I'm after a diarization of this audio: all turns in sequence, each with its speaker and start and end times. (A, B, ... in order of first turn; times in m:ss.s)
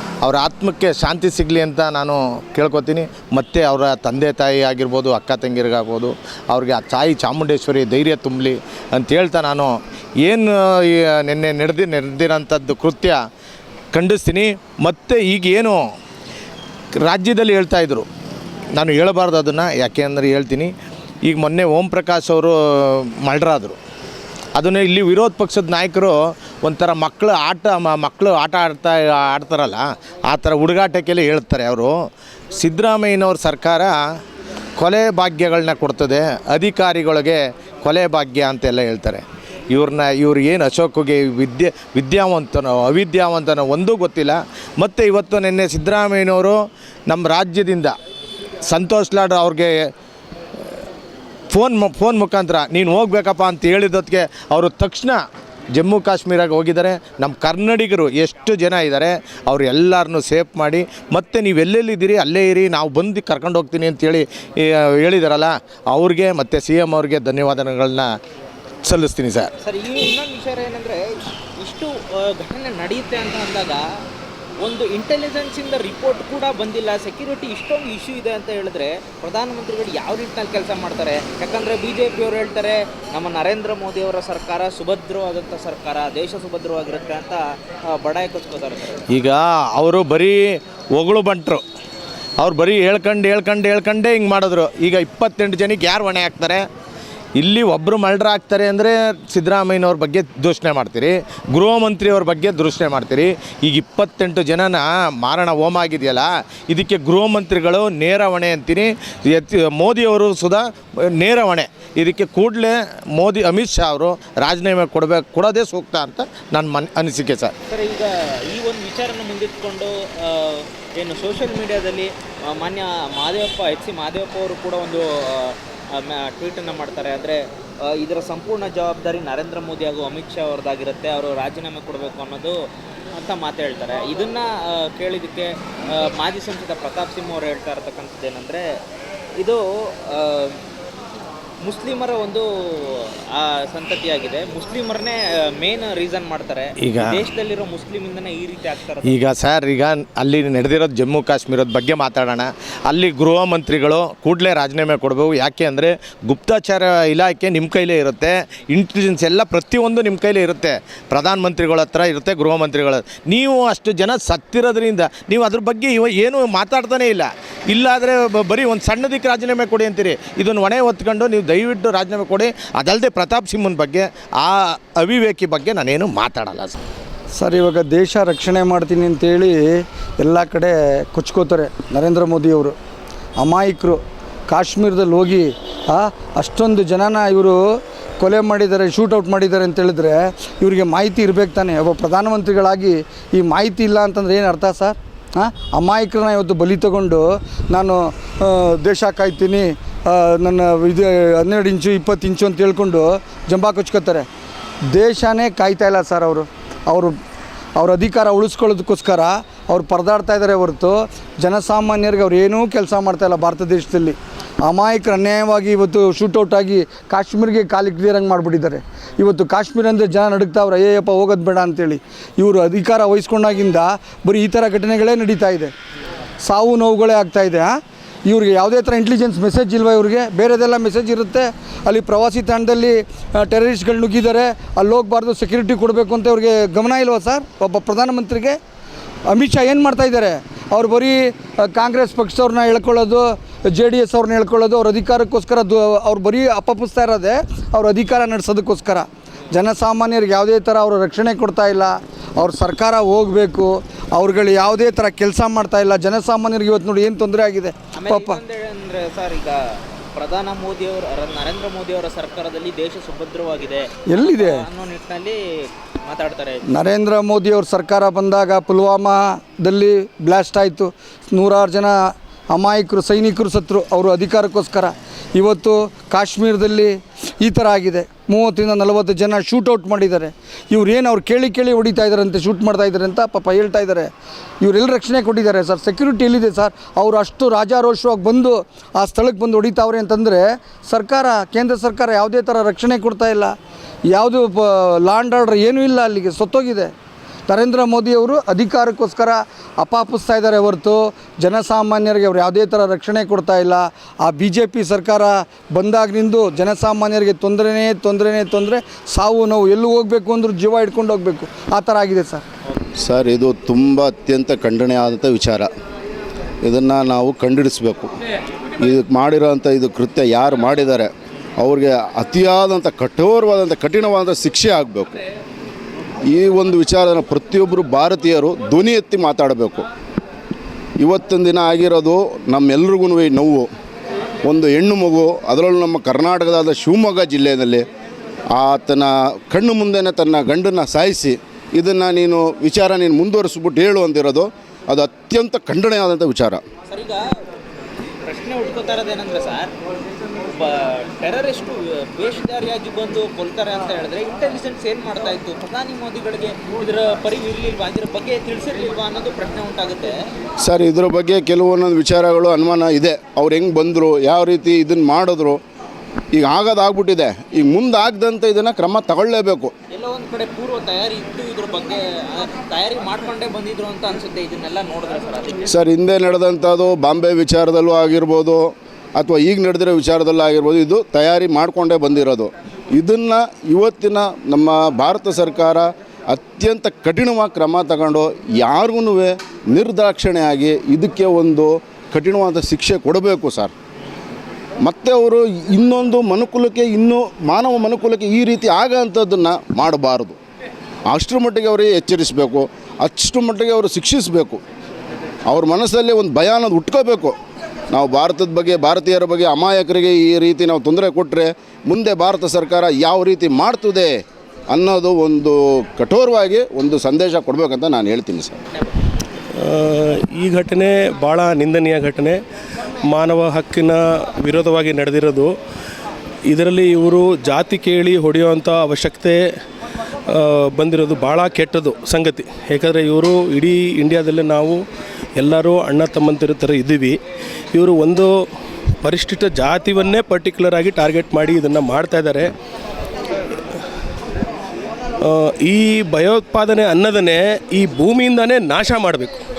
0:00.2-0:13.2 A
0:13.9-0:15.8 A
0:17.0-0:18.1 A
0:18.8-0:20.7 A
0:21.2-0:23.8 A
0:24.5-0:31.9 A
0:32.5-0:34.0 A
0:34.8-0:48.0 A
0:48.6-0:49.9 A
0:51.5-0:55.2 A
0:55.7-1:08.1 A
1:08.8-1:09.5 A
1:09.6-1:13.8 B
1:14.6-1:29.1 B
1:29.1-1:31.6 A
1:32.4-1:36.7 A
1:37.4-1:57.5 A
1:57.7-2:12.6 B
2:13.1-2:18.6 B
2:19.4-2:20.6 B
2:21.6-2:29.2 B
2:26.8-2:27.2 A
2:29.0-2:56.8 A
2:57.3-3:02.8 C
3:03.4-3:07.6 C
3:08.2-3:24.3 C
3:24.9-3:27.1 C
3:27.8-3:45.7 C
3:46.4-3:58.6 C
3:59.3-4:18.4 C
4:18.0-4:19.6 B
4:20.2-4:25.4 B
4:24.1-4:24.6 C
4:26.0-4:26.6 B
4:26.7-4:53.5 C
4:54.1-4:56.9 C
4:57.5-5:12.4 C
5:13.0-5:15.7 D
5:16.6-5:18.1 D
5:18.8-5:25.2 D
5:26.3-5:29.9 D
5:31.0-5:33.7 D
5:34.4-5:37.8 D
5:38.5-5:46.6 D
5:46.9-5:47.2 B
5:48.2-5:49.7 B
5:50.5-6:00.2 B
6:00.6-6:05.6 D
6:06.3-6:09.7 D
6:09.9-6:15.6 B
6:15.7-6:33.7 D
6:34.8-6:40.4 D
6:41.1-6:44.6 D
6:45.5-6:47.4 D
6:47.9-6:58.6 D
6:59.6-7:02.4 E
7:03.1-7:05.5 E
7:06.5-7:09.4 E
7:10.3-7:14.8 E
7:15.4-7:17.2 E
7:17.7-7:18.3 E
7:19.0-7:22.5 E
7:25.2-7:29.3 E